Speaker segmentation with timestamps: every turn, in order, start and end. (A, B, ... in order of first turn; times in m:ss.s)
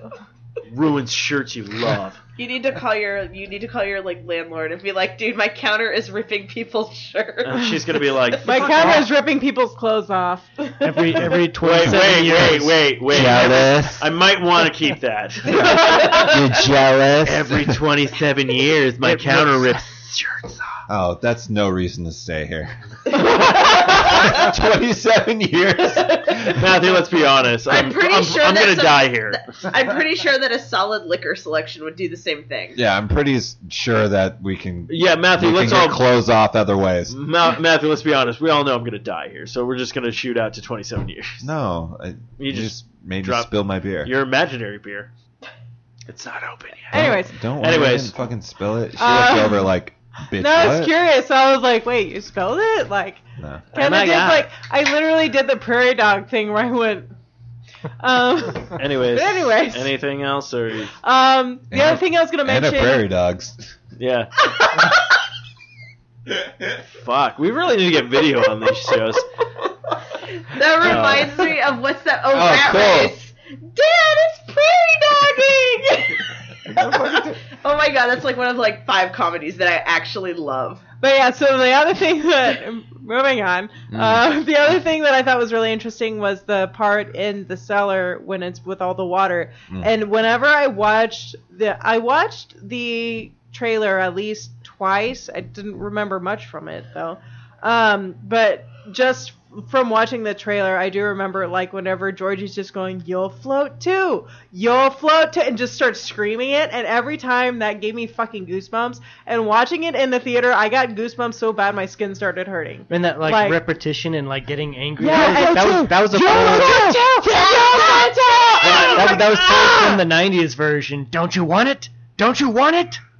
0:00.7-0:02.2 A
0:02.4-0:08.9 B
0:07.4-0:09.0 A
0:08.4-0:11.2 C
0:10.8-0:13.3 D
0:11.6-0:16.0 A
0:11.9-0:12.6 E
0:13.1-0:14.0 E
0:15.4-0:17.8 E
0:15.6-0:16.4 B
0:17.2-0:20.7 A
0:19.0-0:19.7 D
0:20.9-0:26.7 E
0:24.0-0:24.5 B
0:26.0-0:26.5 B
0:26.5-0:29.4 A
0:27.7-0:32.8 B
0:32.7-0:37.2 E
0:34.9-0:36.0 A
0:37.1-0:41.5 A
0:41.4-0:44.1 E
0:42.4-0:43.5 A
0:44.0-0:45.1 A
0:46.1-0:48.2 A
0:46.9-0:47.4 C
0:46.9-0:50.9 E
0:49.0-0:49.7 C
0:50.3-0:53.2 C
0:53.4-0:53.7 E
0:53.7-0:54.5 A
0:53.7-0:57.1 C
0:58.0-0:59.9 C
0:58.7-1:00.9 A
1:01.0-1:03.0 C
1:01.7-1:03.7 E
1:04.0-1:04.3 A
1:06.9-1:09.3 A
1:10.3-1:20.8 B
1:10.8-1:11.4 A
1:12.3-1:13.2 E
1:16.6-1:17.3 E
1:21.0-1:53.6 C
1:23.9-1:24.2 E
1:52.9-1:58.1 D
1:55.0-2:00.0 C
1:58.6-1:59.6 A
1:58.6-2:03.0 D
1:58.6-1:58.9 E